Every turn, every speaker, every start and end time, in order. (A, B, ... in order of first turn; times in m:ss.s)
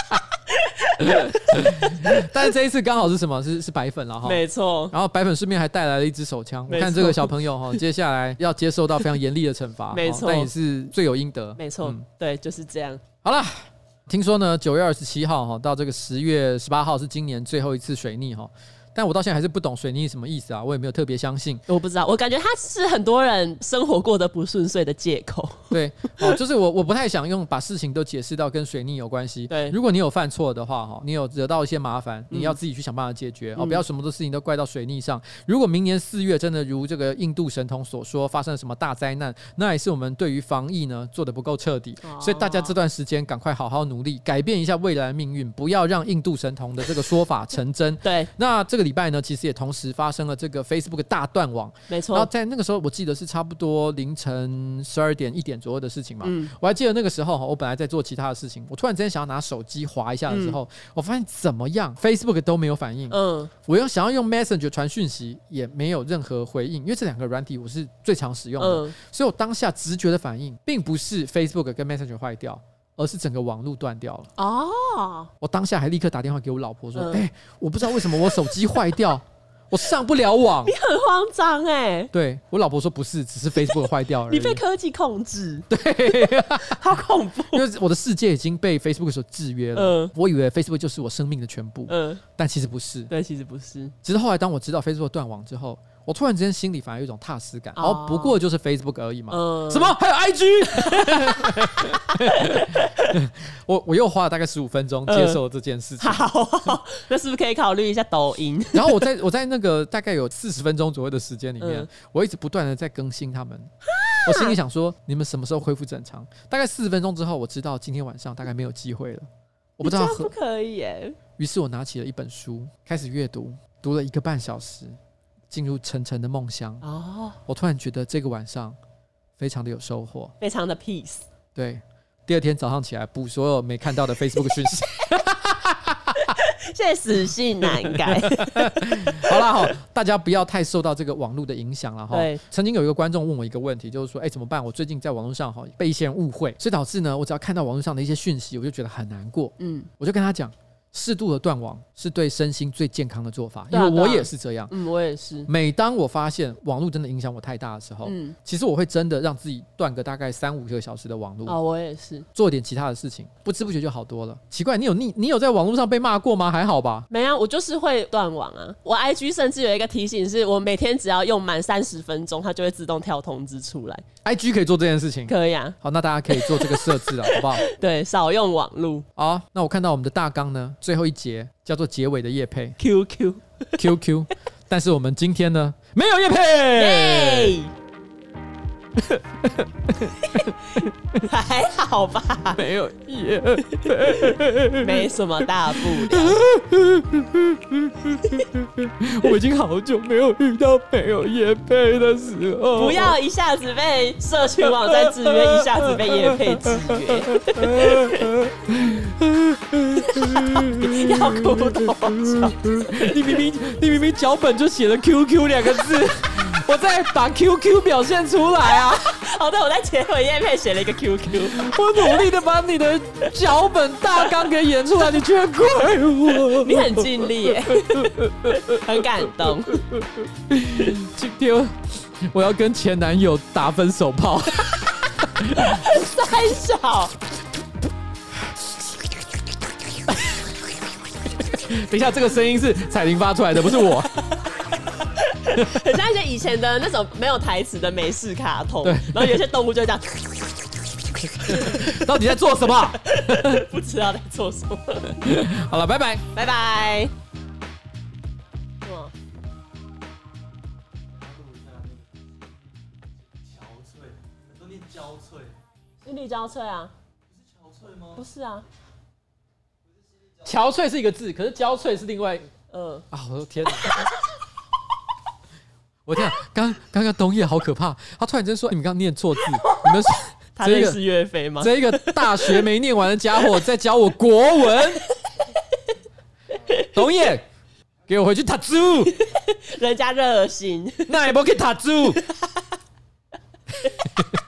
0:00.5-0:02.2 A
0:01.0-0:12.0 B
0:04.2-0:04.9 A
0:06.7-0:07.3 A
0:09.9-0:10.5 A
0:11.6-0:13.0 A
0:13.2-0:21.6 B
0:21.7-0:25.7 A
0:25.7-1:14.3 B
0:29.5-0:29.8 A
0:32.3-0:32.6 A
0:33.6-0:33.8 A
0:42.0-0:42.7 A
0:48.0-0:48.3 A
0:51.9-0:52.3 A
0:56.2-0:56.5 A
1:00.3-1:00.6 A
1:03.1-1:03.5 A
1:08.6-1:09.0 A
1:14.4-1:15.3 A
1:15.4-1:20.7 B
1:17.0-1:17.2 A
1:18.1-1:18.4 A
1:20.6-1:22.1 A
1:22.1-1:24.6 B
1:23.7-1:27.6 A
1:25.7-1:26.9 B
1:27.5-1:33.1 B
1:29.7-1:30.1 A
1:31.9-1:32.2 A
1:33.1-1:33.9 A
1:34.0-1:46.2 B
1:37.8-1:38.4 A
1:39.3-1:40.0 A
1:40.7-1:43.1 A
1:45.1-1:45.4 A
1:46.0-1:49.0 A
1:48.7-1:53.7 B
1:51.6-1:51.9 A
1:53.9-1:54.6 A
1:54.2-2:00.3 B
1:59.8-2:01.2 A
2:01.4-2:05.0 B
2:05.5-2:06.8 B
2:06.8-2:07.4 A
2:07.4-2:08.8 B
2:09.4-2:10.3 B
2:10.4-2:11.2 A
2:11.5-2:16.3 B
2:16.2-2:19.6 A
2:17.7-2:34.7 B
2:22.1-2:22.4 A
2:29.6-2:29.9 A
2:33.7-2:35.5 A
2:35.4-2:41.6 B
2:38.0-2:38.3 A
2:41.4-2:42.2 A
2:42.3-2:47.1 B
2:47.1-2:54.0 A
2:54.2-2:57.6 B
2:55.3-2:55.7 A
2:56.3-2:59.0 A
2:59.2-3:02.8 B
3:02.8-3:03.4 A
3:03.8-3:07.6 B
3:06.7-3:07.7 A
3:09.1-3:10.9 B
3:10.2-3:12.6 A
3:12.5-3:23.2 B
3:14.1-3:16.4 A
3:22.7-3:28.3 A
3:24.6-3:39.2 B
3:30.0-3:33.1 A
3:38.7-3:42.1 A
3:41.4-3:55.8 B
3:46.5-3:49.8 A
3:55.5-3:57.2 A
4:00.1-4:00.6 B
4:01.4-4:04.1 B
4:05.0-4:10.8 A
4:08.8-4:09.4 B
4:11.3-4:12.0 A
4:11.4-4:13.7 B
4:13.0-4:15.3 A
4:15.2-4:16.3 B
4:16.3-4:17.1 A
4:18.8-4:19.1 A
4:21.1-4:22.5 C
4:23.3-4:25.6 C
4:26.0-4:26.9 A
4:27.3-4:28.2 C
4:28.2-4:28.6 A
4:30.4-4:32.5 B
4:32.7-4:33.0 A
4:33.1-4:34.1 B
4:36.0-4:41.0 B
4:40.6-4:42.6 A
4:41.6-4:45.0 B
4:46.7-4:47.4 B
4:48.1-4:49.2 B
4:49.1-4:51.3 A
4:51.1-4:52.2 B